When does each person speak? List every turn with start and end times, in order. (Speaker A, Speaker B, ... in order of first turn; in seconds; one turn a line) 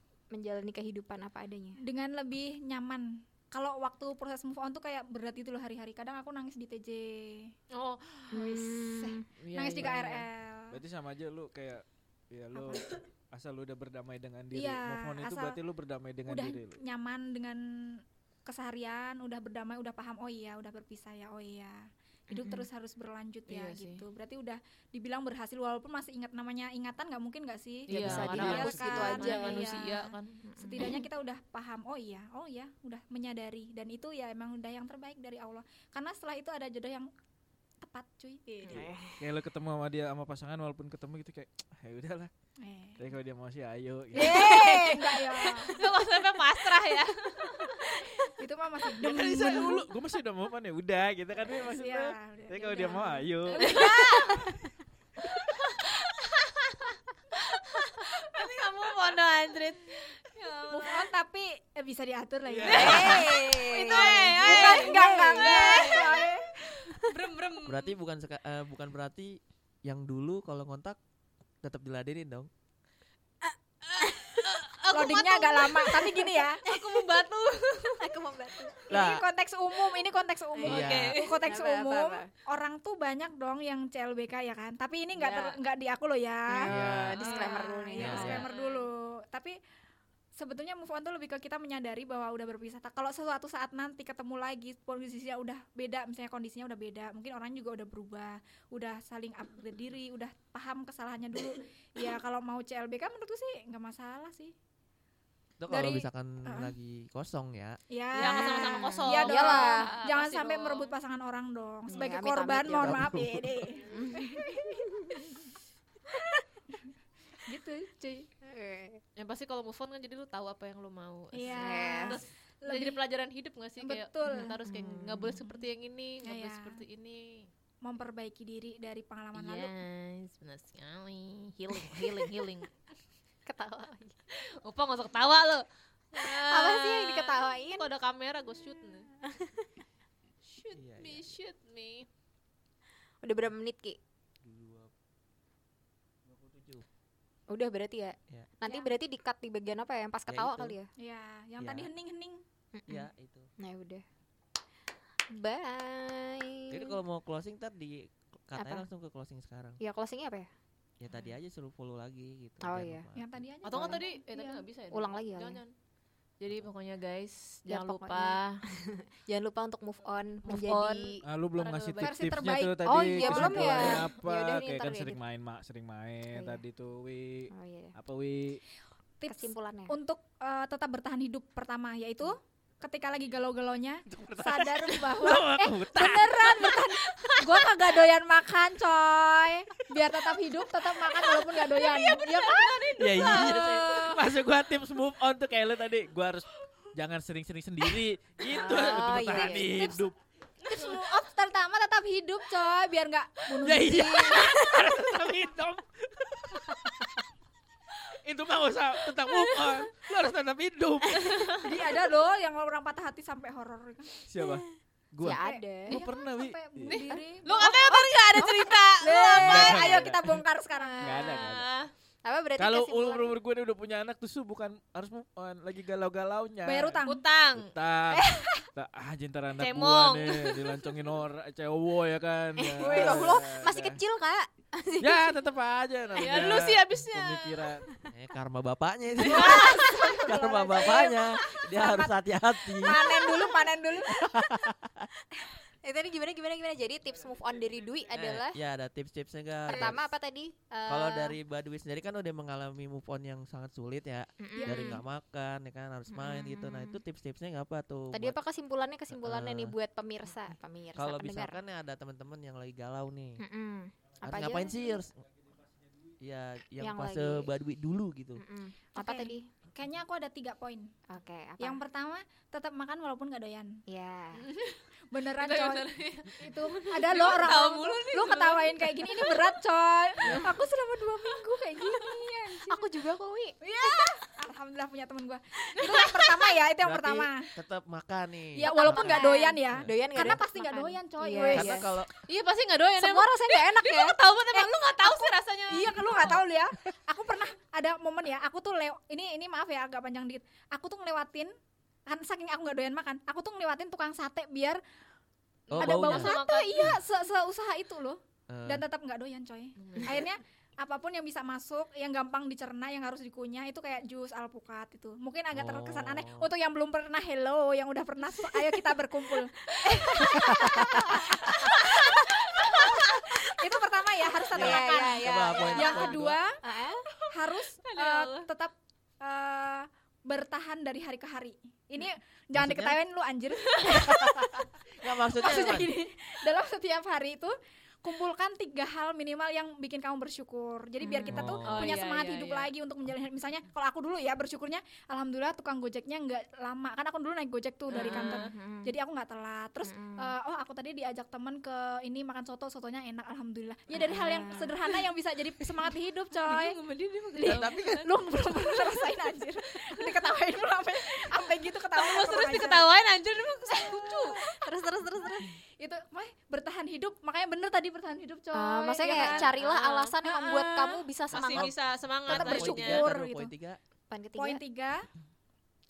Speaker A: 0.3-1.8
Speaker B: 1.8-7.5
Speaker C: 7.7-8.6
Speaker A: 8.3-9.2
Speaker B: 8.3-10.8
Speaker C: 9.4-10.2
Speaker D: 10.7-16.8
Speaker B: 12.5-12.9
Speaker B: 14.5-15.6
Speaker B: 16.3-37.1
Speaker A: 22.3-22.7
Speaker C: 23.5-24.1
Speaker C: 27.9-30.8
Speaker D: 27.9-29.3
Speaker A: 28.0-29.7
Speaker A: 30.4-31.1
Speaker B: 37.8-38.9
Speaker A: 38.6-39.2
Speaker D: 38.7-42.3
Speaker B: 42.6-43.1
Speaker D: 43.0-44.4
Speaker B: 44.1-45.8
Speaker A: 44.1-45.8
Speaker C: 44.4-44.9
Speaker C: 45.6-47.9
Speaker B: 48.2-49.9
Speaker D: 48.9-53.9
Speaker B: 51.6-54.5
Speaker C: 53.5-54.4
Speaker A: 53.8-54.5
Speaker C: 55.4-61.1
Speaker B: 60.7-63.3
Speaker D: 62.5-63.2
Speaker C: 62.6-66.3
Speaker A: 62.7-66.3
Speaker B: 63.9-66.8
Speaker C: 66.8-67.9
Speaker E: 67.7-71.0
Speaker E: 71.6-72.5
Speaker A: 73.5-74.5
Speaker C: 73.9-78.1
Speaker B: 74.9-76.6
Speaker A: 76.6-77.0
Speaker A: 78.0-78.9
Speaker B: 78.9-89.5
Speaker E: 78.9-79.2
Speaker A: 80.5-82.3
Speaker C: 80.6-81.5
Speaker E: 80.7-81.2
Speaker C: 85.1-85.6
Speaker A: 86.5-88.5
Speaker E: 86.7-87.2
Speaker C: 87.2-88.9
Speaker E: 88.0-88.4
Speaker B: 90.3-104.5
Speaker E: 105.6-107.8
Speaker B: 105.7-106.7
Speaker B: 107.9-114.8
Speaker C: 108.1-111.0
Speaker A: 108.2-109.9
Speaker A: 111.9-113.2
Speaker E: 112.8-113.4
Speaker A: 113.8-115.5
Speaker A: 116.1-116.4
Speaker B: 117.5-118.3
Speaker A: 118.4-119.0
Speaker C: 119.2-127.5
Speaker B: 121.3-123.0
Speaker A: 121.5-122.2
Speaker B: 123.8-124.5
Speaker A: 124.4-125.5
Speaker B: 126.2-126.8
Speaker B: 127.8-129.7
Speaker C: 129.3-132.7
Speaker A: 131.9-132.2
Speaker A: 133.4-134.2
Speaker C: 134.3-139.1
Speaker A: 136.1-137.9
Speaker A: 139.2-139.7
Speaker C: 140.4-142.1
Speaker E: 140.7-141.4
Speaker A: 143.2-144.0
Speaker E: 144.4-144.9
Speaker E: 146.3-146.8
Speaker A: 147.5-150.9
Speaker E: 150.3-150.7
Speaker B: 151.0-152.4
Speaker E: 151.6-151.9
Speaker A: 152.7-154.0
Speaker E: 152.9-153.5
Speaker A: 155.3-157.0
Speaker E: 156.7-159.8
Speaker A: 158.6-158.8
Speaker A: 159.8-160.5
Speaker E: 161.0-163.4
Speaker A: 162.6-163.1
Speaker B: 163.1-164.6
Speaker C: 163.6-165.7
Speaker A: 163.7-164.0
Speaker A: 164.9-165.6
Speaker C: 166.4-168.6
Speaker A: 167.7-171.2
Speaker C: 170.4-172.4
Speaker D: 171.2-178.6
Speaker B: 172.0-174.0
Speaker A: 172.8-175.2
Speaker A: 176.3-176.6
Speaker A: 177.5-177.9
Speaker B: 179.2-193.9
Speaker A: 179.3-180.0
Speaker D: 184.2-186.1
Speaker E: 184.4-186.7
Speaker C: 187.0-187.7
Speaker C: 191.2-194.2
Speaker D: 193.0-200.2
Speaker E: 193.4-193.9
Speaker A: 198.5-200.1
Speaker C: 200.6-201.2
Speaker B: 200.7-204.6
Speaker D: 203.6-207.2
Speaker A: 203.9-204.5
Speaker D: 208.0-211.6
Speaker C: 209.3-209.7
Speaker C: 211.2-211.6
Speaker B: 211.6-214.2
Speaker D: 214.3-217.0
Speaker A: 215.2-215.9
Speaker B: 215.3-221.4
Speaker C: 216.9-220.1
Speaker A: 218.3-218.7
Speaker D: 219.4-220.4
Speaker D: 221.0-221.7
Speaker C: 221.0-221.9
Speaker A: 222.2-223.4
Speaker D: 222.6-227.0
Speaker B: 226.7-227.2
Speaker C: 227.0-227.8
Speaker D: 227.6-234.0
Speaker B: 228.1-228.6
Speaker C: 229.6-230.9
Speaker A: 232.6-235.3
Speaker B: 232.8-233.4
Speaker D: 235.0-237.9
Speaker C: 236.1-237.7
Speaker E: 238.1-243.2
Speaker B: 239.2-242.1
Speaker A: 239.3-240.1
Speaker C: 239.5-239.8
Speaker B: 242.8-244.1
Speaker A: 243.2-243.5
Speaker E: 244.1-245.1
Speaker A: 245.8-248.6
Speaker E: 248.1-250.1
Speaker A: 249.7-251.4
Speaker E: 250.9-258.4
Speaker A: 254.4-255.0
Speaker B: 254.5-255.0
Speaker A: 256.1-257.0
Speaker A: 258.1-261.6
Speaker E: 259.1-259.7
Speaker E: 260.9-263.4
Speaker A: 263.4-264.9
Speaker E: 264.2-265.1
Speaker E: 266.2-268.4
Speaker A: 266.8-267.5
Speaker A: 268.4-269.5
Speaker B: 268.9-270.9
Speaker A: 271.1-271.8
Speaker B: 271.6-273.8
Speaker A: 273.9-274.5
Speaker C: 274.3-274.8
Speaker B: 275.1-275.9
Speaker C: 275.4-279.6
Speaker B: 276.4-282.8
Speaker C: 281.2-282.3
Speaker A: 282.7-283.6
Speaker B: 283.6-287.5
Speaker C: 285.8-286.4
Speaker E: 286.8-289.2
Speaker B: 288.6-291.8
Speaker A: 288.6-291.9
Speaker E: 291.5-292.1
Speaker C: 292.1-296.4
Speaker A: 293.0-294.2
Speaker B: 294.5-301.5
Speaker B: 302.1-304.8
Speaker E: 305.7-306.3
Speaker C: 305.8-307.0
Speaker B: 305.8-326.6
Speaker E: 308.5-308.8
Speaker C: 309.8-310.3
Speaker E: 315.5-316.5
Speaker C: 318.4-318.7
Speaker C: 319.9-320.2
Speaker E: 320.2-321.6
Speaker A: 321.7-322.2
Speaker A: 323.0-323.6
Speaker A: 324.4-327.0
Speaker E: 324.5-326.4
Speaker C: 325.8-326.1
Speaker C: 327.2-328.5
Speaker B: 327.3-334.6
Speaker E: 332.5-333.0
Speaker C: 333.6-334.0
Speaker E: 334.1-335.9
Speaker B: 335.4-356.8
Speaker A: 341.0-341.5
Speaker E: 341.3-342.0
Speaker C: 341.6-342.7
Speaker C: 347.9-348.5
Speaker A: 347.9-348.9
Speaker A: 349.8-350.3
Speaker A: 353.9-354.8
Speaker C: 354.0-354.7
Speaker C: 356.4-358.1
Speaker B: 357.3-362.8
Speaker E: 357.4-358.1
Speaker C: 358.7-359.0
Speaker C: 361.9-364.4
Speaker B: 363.7-364.4
Speaker A: 364.6-365.5
Speaker B: 365.8-369.6
Speaker A: 368.5-371.7
Speaker C: 369.0-373.1
Speaker B: 370.3-370.6
Speaker E: 371.3-371.7
Speaker E: 372.3-373.8
Speaker B: 372.3-373.5
Speaker A: 374.1-374.6
Speaker B: 374.4-375.1